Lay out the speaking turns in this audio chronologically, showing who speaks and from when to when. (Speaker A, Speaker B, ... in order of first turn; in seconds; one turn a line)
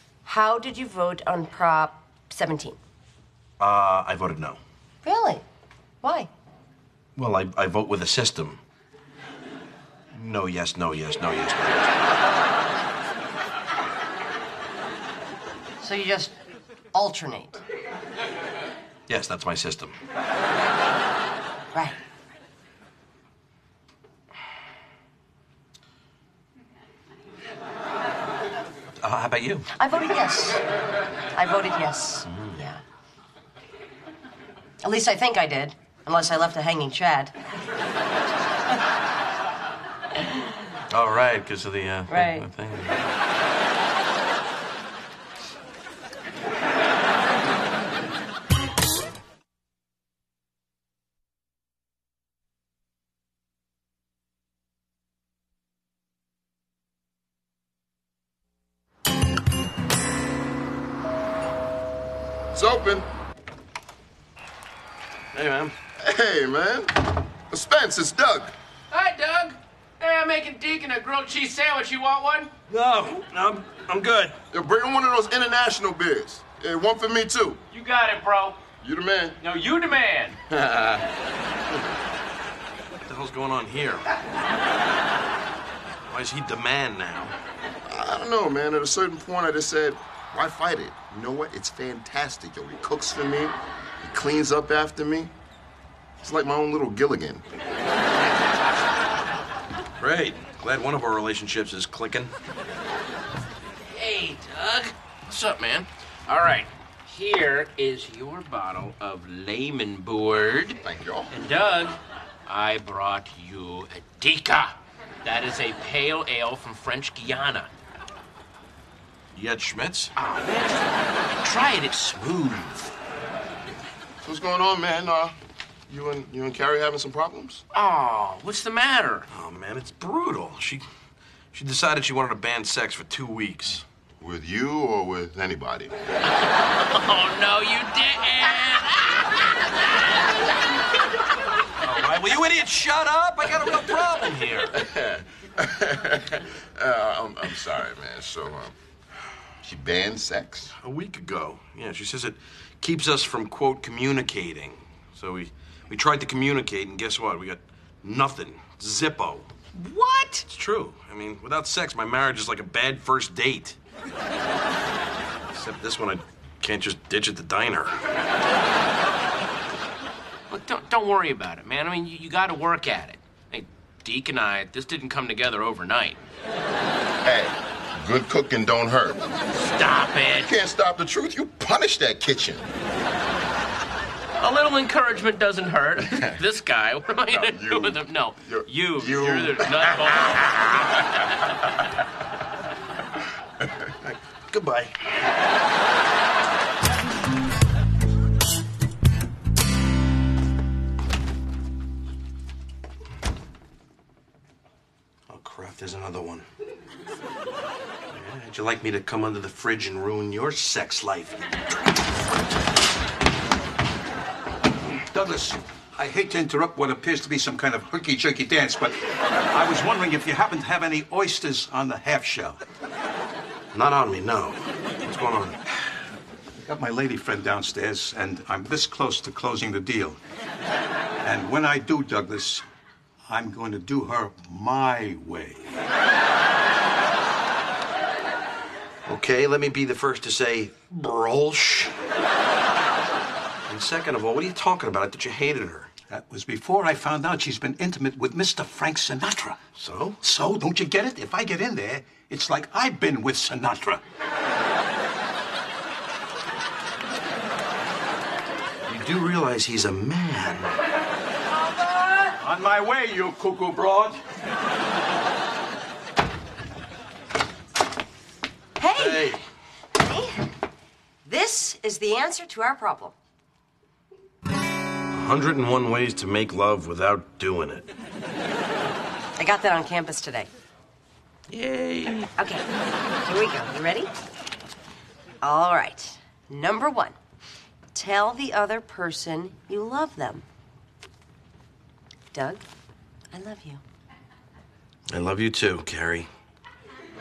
Speaker A: 0.2-2.8
Speaker B: 3.6-4.6
Speaker A: 5.0-5.4
Speaker A: 6.0-6.3
Speaker B: 7.2-8.6
Speaker B: 10.1-11.9
Speaker A: 15.8-16.3
Speaker A: 16.9-17.6
Speaker B: 19.1-19.9
Speaker B: 29.0-29.7
Speaker A: 29.7-30.6
Speaker A: 31.3-32.8
Speaker B: 32.3-32.6
Speaker A: 34.8-37.3
Speaker B: 40.9-43.0
Speaker A: 42.1-42.5
Speaker C: 62.5-63.1
Speaker B: 65.3-65.7
Speaker C: 66.0-68.5
Speaker D: 68.9-72.5
Speaker B: 72.7-74.4
Speaker C: 74.5-77.6
Speaker D: 77.7-78.6
Speaker C: 78.8-79.4
Speaker D: 79.4-80.4
Speaker C: 80.5-81.0
Speaker B: 83.0-84.0
Speaker B: 86.1-87.3
Speaker C: 87.8-95.3
Speaker C: 96.2-97.4
Speaker B: 100.0-102.3
Speaker D: 103.8-110.8
Speaker C: 110.8-111.3
Speaker D: 111.3-117.7
Speaker B: 119.3-120.1
Speaker D: 120.2-120.9
Speaker D: 121.4-122.9
Speaker C: 124.2-125.3
Speaker C: 125.9-127.6
Speaker D: 127.7-129.3
Speaker B: 129.3-130.8
Speaker B: 131.5-133.8
Speaker C: 134.2-135.9
Speaker D: 136.8-139.6
Speaker B: 141.8-144.7
Speaker C: 144.7-148.7
Speaker C: 149.6-150.7
Speaker B: 150.8-159.5
Speaker A: 159.9-160.3
Speaker D: 160.0-160.4
Speaker B: 160.5-163.8
Speaker B: 165.5-168.0
Speaker D: 170.5-176.2
Speaker C: 177.2-179.3
Speaker D: 179.6-180.5
Speaker C: 180.3-182.7
Speaker D: 184.4-190.5
Speaker C: 186.1-186.4
Speaker C: 187.3-190.1
Speaker B: 194.0-195.0
Speaker B: 205.3-206.5
Speaker B: 208.1-211.5
Speaker E: 215.1-222.6
Speaker B: 223.7-225.6
Speaker E: 226.6-230.2
Speaker E: 231.2-232.6
Speaker E: 233.3-235.8
Speaker B: 239.1-241.9
Speaker B: 243.7-245.9
Speaker E: 246.1-249.6
Speaker B: 249.8-250.2
Speaker E: 250.2-254.0
Speaker B: 258.9-260.7
Speaker E: 262.4-264.2
Speaker A: 268.8-269.3
Speaker B: 268.9-269.4
Speaker A: 270.0-270.5
Speaker A: 271.2-273.1
Speaker B: 275.1-277.9
Speaker A: 279.4-280.5
Speaker B: 281.5-282.3
Speaker A: 282.4-282.6
Speaker A: 283.2-284.1
Speaker A: 285.4-287.1
Speaker A: 287.9-290.4
Speaker A: 292.3-292.6
Speaker A: 293.3-293.8
Speaker B: 295.1-296.3